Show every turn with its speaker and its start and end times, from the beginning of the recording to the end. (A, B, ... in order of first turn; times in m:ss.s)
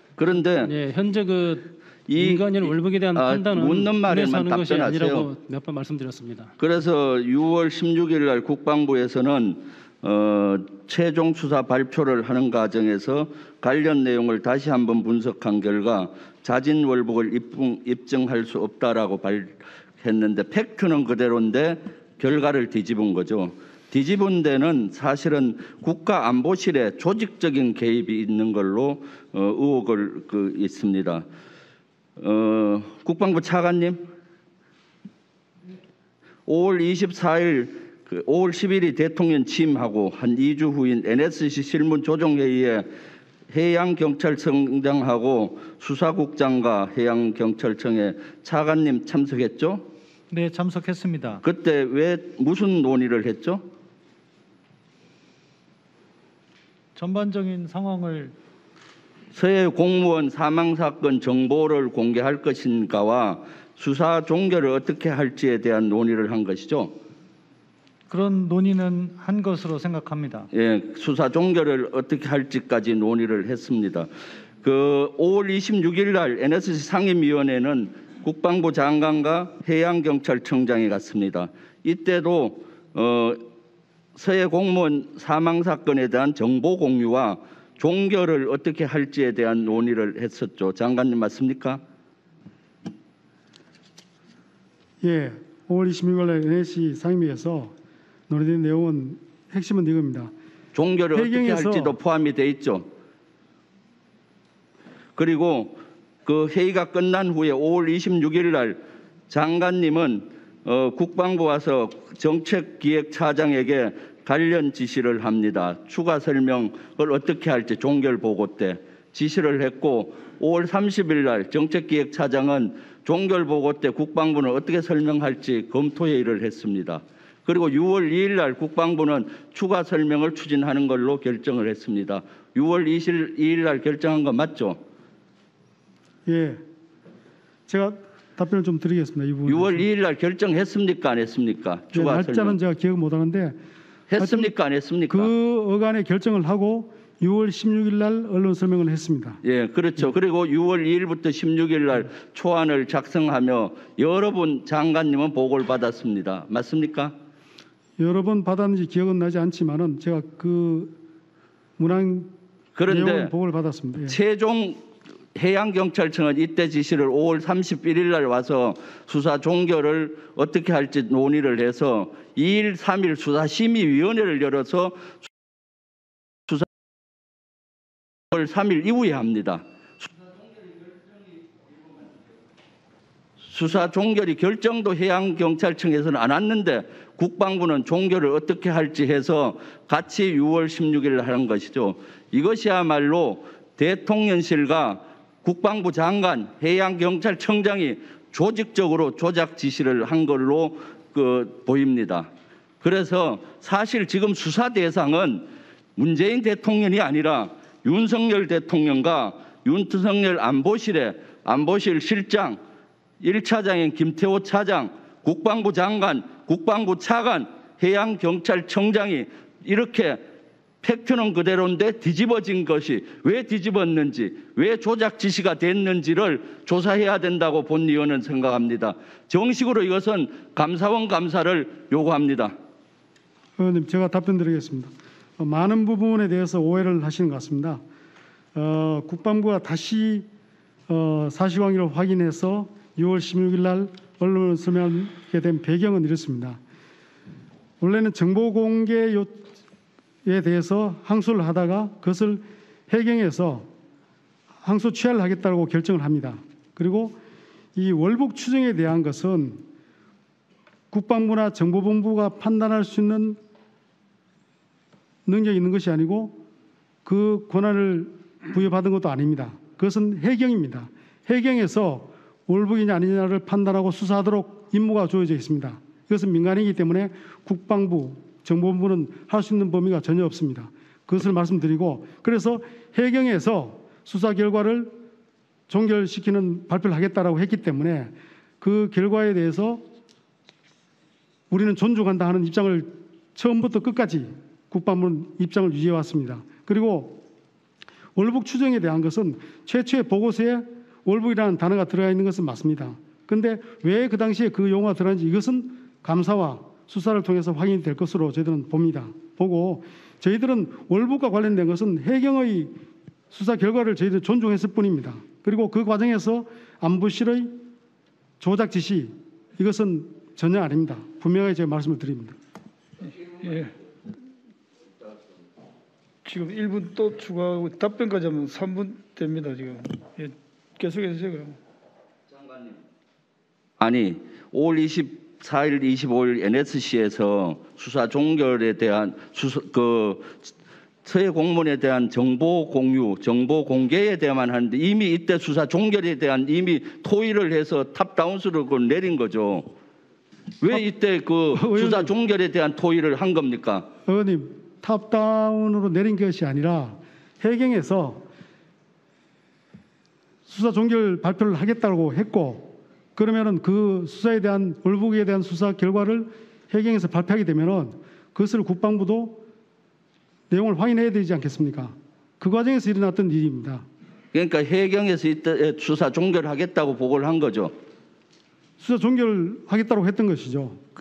0:00.2-0:00.7 A
0:00.6-0:06.5 B
0:02.1-0:05.3 A
0:06.6-0:31.2 A
0:32.2-0:34.0 A
0:36.5-0:42.9 A
0:43.5-0:49.9 A
0:50.3-0:51.4 C
0:51.4-0:53.6 A
0:57.0-0:58.4 C
0:59.3-1:07.0 A
1:08.1-1:10.5 C
1:10.5-1:14.1 A
1:14.6-1:23.4 A
1:24.2-1:31.8 A
1:35.0-1:37.7 D
1:38.3-1:40.3 D
1:40.7-1:42.9 A
1:41.1-1:42.0 D
1:45.2-2:14.8 A
2:16.3-2:16.6 D
2:17.7-2:19.9 D
2:19.5-2:22.6 A
2:21.9-2:23.6 D
2:24.1-2:25.3 A
2:24.2-2:24.5 D
2:25.1-2:29.4 D
2:29.4-2:37.2 A
2:38.0-2:41.0 D
2:41.8-2:42.3 D
2:42.8-2:43.3 A
2:42.9-2:44.2 D
2:44.1-2:44.8 A
2:45.4-2:55.2 A
2:58.3-3:02.2 A
3:03.4-3:22.3 A
3:22.8-3:32.6 A
3:33.2-3:40.2 A
3:40.8-3:52.5 A
3:53.6-3:57.8 D
3:58.6-4:00.3 D
4:00.9-4:06.6 D
4:07.8-4:09.5 D
4:10.2-4:13.7 D
4:14.6-4:17.2 D
4:17.8-4:19.6 D
4:20.9-4:23.4 D
4:25.3-4:26.4 D
4:27.0-4:44.9 D
4:45.7-4:49.8 D
4:51.5-4:57.2 D
4:58.2-5:12.7 D
5:13.3-5:17.6 D
5:18.4-5:22.4 D
5:23.4-5:23.7 E
5:26.2-5:31.6 E
5:32.3-5:32.8 A
5:33.8-5:40.5 A
5:41.0-5:49.7 A
5:50.6-5:53.9 A
5:51.5-5:52.1 D
5:54.1-5:58.3 D
6:00.5-6:09.4 D
6:10.5-6:13.8 D
6:14.3-6:17.7 A
6:18.8-6:20.8 D